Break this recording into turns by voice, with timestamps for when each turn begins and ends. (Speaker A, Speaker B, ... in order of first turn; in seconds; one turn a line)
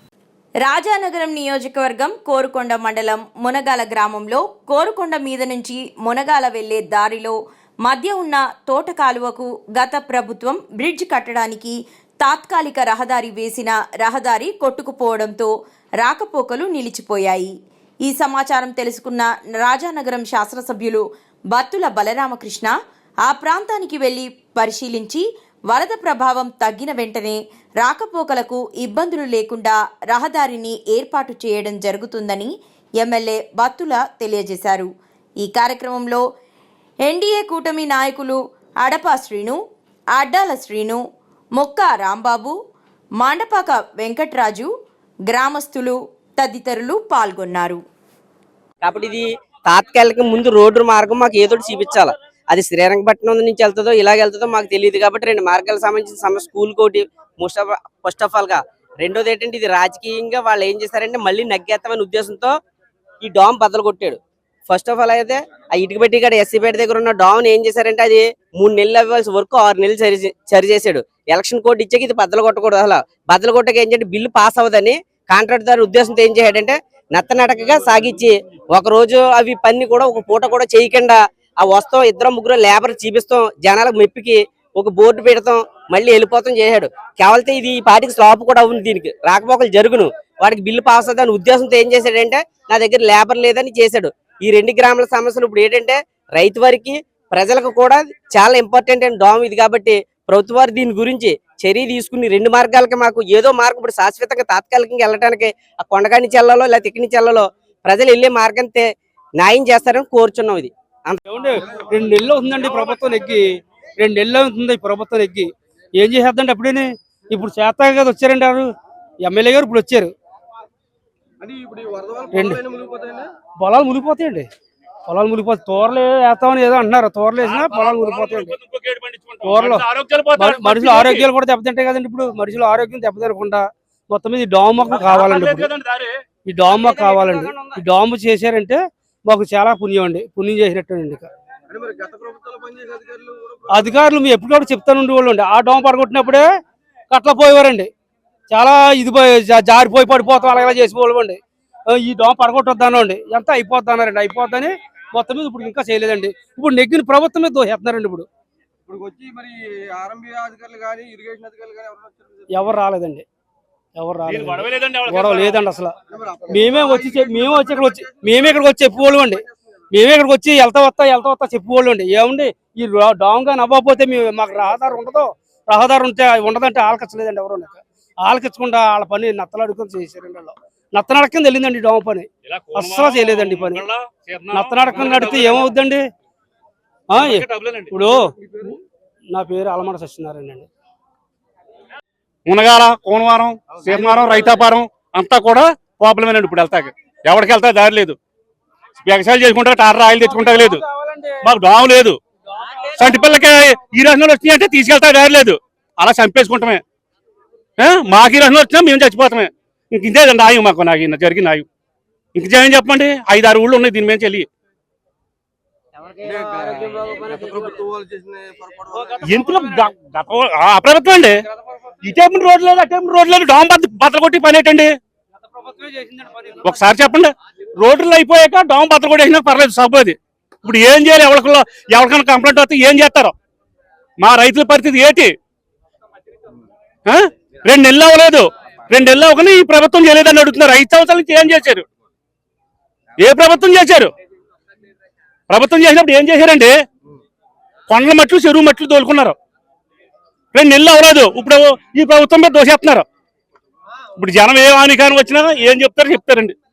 Speaker A: 0.6-17.5
Speaker A: 18.1-22.7
Speaker A: 23.3-34.9
Speaker A: 35.4-36.2
Speaker A: 37.1-39.6
Speaker A: 40.2-41.0
Speaker A: 41.6-42.5
Speaker A: 43.2-44.7
Speaker A: 45.3-47.8
Speaker B: 48.8-62.5
Speaker B: 63.2-111.2
Speaker C: 111.3-118.7
Speaker C: 119.2-120.1
Speaker D: 121.4-123.3
Speaker C: 122.3-122.7
Speaker C: 123.6-124.5
Speaker C: 125.1-128.6
Speaker E: 127.4-131.3
Speaker C: 129.4-129.9
Speaker C: 130.4-135.7
Speaker E: 134.9-136.2
Speaker C: 136.5-141.3
Speaker E: 136.7-137.7
Speaker D: 141.7-143.6
Speaker C: 143.7-146.5
Speaker C: 147.1-147.9
Speaker C: 148.5-158.3
Speaker D: 158.9-161.7
Speaker C: 162.5-163.2
Speaker C: 164.0-165.9
Speaker E: 164.3-165.6
Speaker C: 166.5-183.9
Speaker E: 182.5-185.8
Speaker C: 184.5-186.1
Speaker C: 187.1-188.8
Speaker E: 187.2-188.0
Speaker C: 189.3-190.7
Speaker E: 192.5-198.2
Speaker E: 199.0-200.8
Speaker C: 200.2-201.5
Speaker E: 201.4-202.2
Speaker C: 202.6-203.3
Speaker E: 203.0-206.8
Speaker E: 207.8-211.7
Speaker E: 212.3-214.5
Speaker D: 216.5-219.0
Speaker C: 219.0-219.9
Speaker E: 219.2-221.5
Speaker E: 222.0-224.9
Speaker C: 225.4-226.7
Speaker E: 226.6-233.3
Speaker E: 234.2-235.3
Speaker E: 237.1-241.9
Speaker E: 243.2-244.1
Speaker E: 245.5-246.7
Speaker E: 247.9-249.4
Speaker E: 250.5-253.1
Speaker E: 254.2-256.6